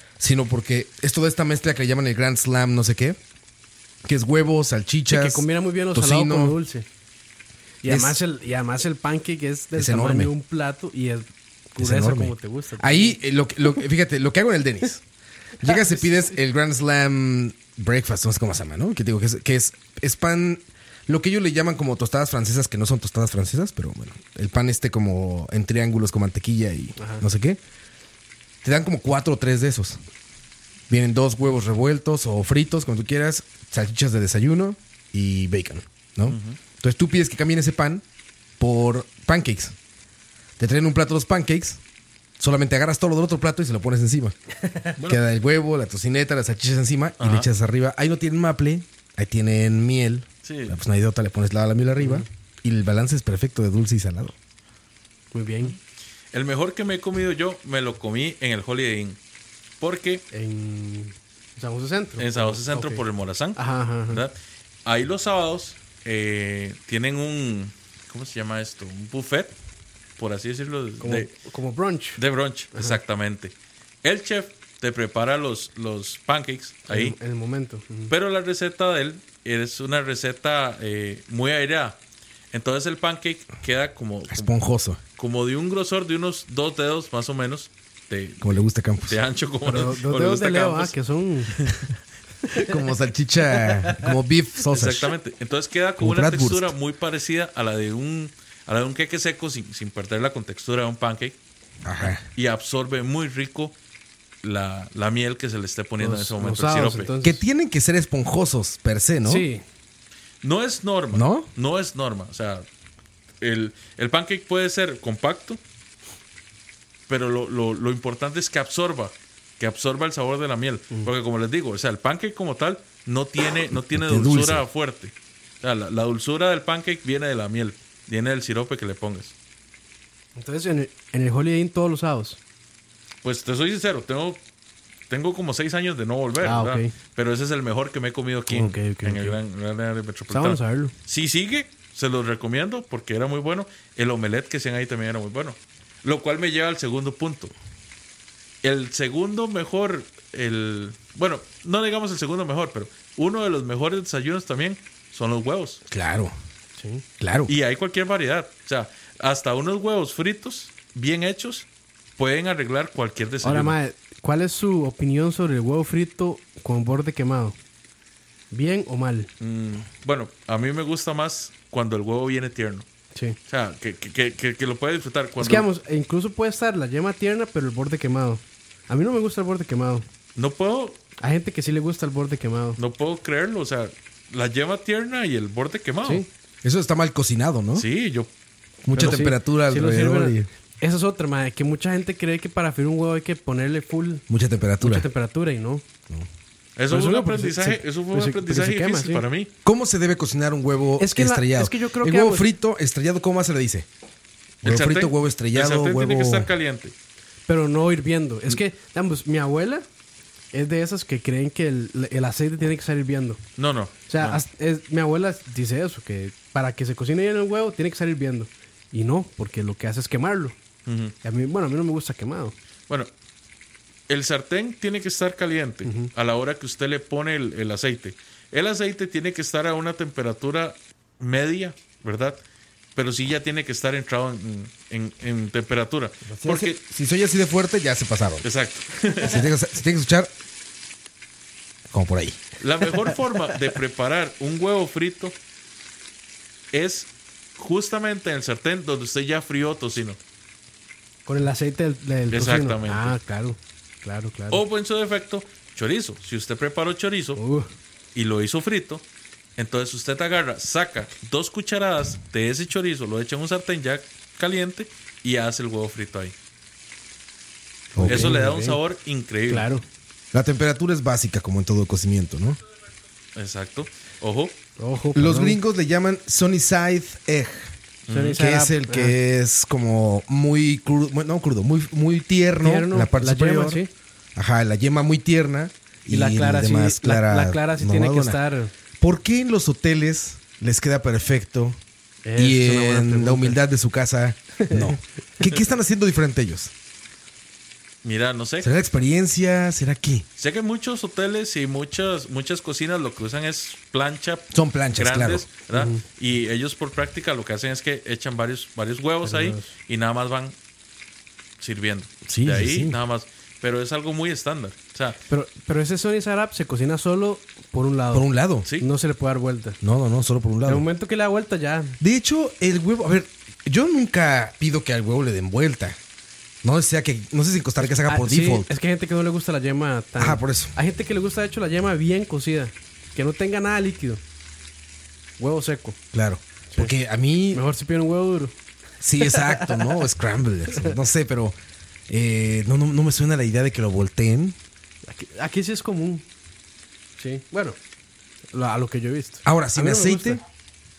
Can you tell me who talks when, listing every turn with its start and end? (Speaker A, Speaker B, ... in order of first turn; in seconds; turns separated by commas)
Speaker A: 0.2-3.2, Speaker A: 4.0-6.6, Speaker B: 5.1-6.9, Speaker B: 7.8-13.2, Speaker A: 7.8-8.2, Speaker A: 9.8-10.3, Speaker A: 11.8-15.0, Speaker A: 15.6-27.6, Speaker B: 15.7-16.0, Speaker B: 27.0-27.2, Speaker A: 28.6-30.0, Speaker A: 30.9-38.0, Speaker C: 36.3-36.6, Speaker A: 38.6-39.8, Speaker A: 40.6-41.8, Speaker A: 42.4-44.4, Speaker A: 45.0-54.4, Speaker C: 47.2-47.5, Speaker C: 50.4-50.8, Speaker B: 52.0-52.3, Speaker B: 55.3-55.8, Speaker C: 56.3-59.2, Speaker C: 59.8-60.2, Speaker B: 60.3-63.0, Speaker C: 62.2-64.3, Speaker B: 63.6-64.2, Speaker C: 64.8-69.5, Speaker C: 70.2-71.3, Speaker B: 71.0-72.2, Speaker C: 72.2-77.2, Speaker B: 76.9-78.1, Speaker C: 78.1-82.0, Speaker C: 82.5-84.5, Speaker A: 84.3-85.0, Speaker C: 85.2-90.9, Speaker A: 88.4-89.2, Speaker B: 89.7-91.6, Speaker A: 92.5-95.1, Speaker C: 94.7-101.4, Speaker A: 96.0-96.7, Speaker A: 101.8-102.2, Speaker C: 102.2-103.7, Speaker C: 104.4-107.1, Speaker B: 106.0-107.4, Speaker A: 107.2-109.5, Speaker B: 109.2-109.6, Speaker C: 110.4-112.7, Speaker A: 111.1-111.5, Speaker C: 113.4-115.6, Speaker C: 117.1-129.3, Speaker A: 123.9-124.6, Speaker B: 130.4-132.4, Speaker C: 133.2-134.4, Speaker C: 135.1-147.5, Speaker B: 136.4-136.9, Speaker B: 138.5-139.4, Speaker B: 140.3-140.9, Speaker C: 148.6-155.8, Speaker A: 155.9-156.3, Speaker B: 156.8-157.0, Speaker A: 157.2-157.5, Speaker C: 157.5-161.7, Speaker C: 162.2-163.8, Speaker B: 163.4-167.6, Speaker B: 168.5-169.3, Speaker C: 169.4-172.9, Speaker C: 173.5-175.7, Speaker B: 175.4-180.1, Speaker C: 180.4-181.0, Speaker B: 181.2-182.8, Speaker C: 182.8-186.2, Speaker A: 186.6-187.9, Speaker C: 187.8-188.3, Speaker A: 188.8-190.5, Speaker B: 188.9-194.2, Speaker A: 194.3-195.1, Speaker B: 194.8-195.8, Speaker C: 196.8-199.5, Speaker B: 196.9-199.2, Speaker A: 199.6-203.9, Speaker B: 201.0-202.5, Speaker A: 204.6-206.5, Speaker C: 204.6-206.9, Speaker B: 207.5-209.9, Speaker B: 210.5-213.4, Speaker C: 213.6-214.4, Speaker B: 214.1-220.6, Speaker C: 220.9-221.1, Speaker B: 221.2-222.6, Speaker C: 224.1-232.4, Speaker B: 225.8-226.1, Speaker C: 232.9-236.8, Speaker A: 236.3-238.5, Speaker C: 238.4-239.4, Speaker A: 239.2-240.3, Speaker A: 241.9-242.4, Speaker C: 242.6-245.4, Speaker C: 246.7-250.2, Speaker B: 251.3-254.6, Speaker C: 252.3-253.2, Speaker C: 254.5-257.4, Speaker B: 257.4-257.7, Speaker C: 258.1-259.0, Speaker C: 259.6-266.3, Speaker A: 267.9-268.4, Speaker B: 268.0-268.8, Speaker C: 268.0-269.7, Speaker B: 269.5-269.8, Speaker A: 270.3-272.6, Speaker C: 273.4-274.5, Speaker B: 274.8-275.6, Speaker A: 275.1-277.7, Speaker C: 278.1-278.4, Speaker B: 278.1-279.2, Speaker A: 278.4-283.8, Speaker B: 282.6-283.9, Speaker A: 284.4-288.4, Speaker B: 286.1-288.7, Speaker A: 289.0-291.8, Speaker B: 292.2-293.6, Speaker A: 292.4-296.7, Speaker B: 294.6-295.0, Speaker C: 298.0-298.7, Speaker A: 298.6-300.2, Speaker C: 300.4-310.6, Speaker A: 304.5-305.5, Speaker B: 305.7-306.0, Speaker B: 309.2-309.7, Speaker C: 311.6-315.2, Speaker A: 312.3-313.0, Speaker B: 315.3-319.8, Speaker A: 318.1-318.7, Speaker A: 319.8-320.9, Speaker B: 320.6-322.0, Speaker A: 322.0-326.0, Speaker A: 326.6-328.7, Speaker B: 327.8-334.2, Speaker A: 330.2-330.7, Speaker B: 335.4-336.0, Speaker A: 336.1-337.6, Speaker B: 337.5-338.6, Speaker A: 339.0-341.6, Speaker B: 339.2-340.0, Speaker B: 340.7-341.0, Speaker A: 342.1-344.6, Speaker B: 345.1-346.2, Speaker B: 347.2-347.8, Speaker B: 348.5-350.4, Speaker A: 349.4-350.4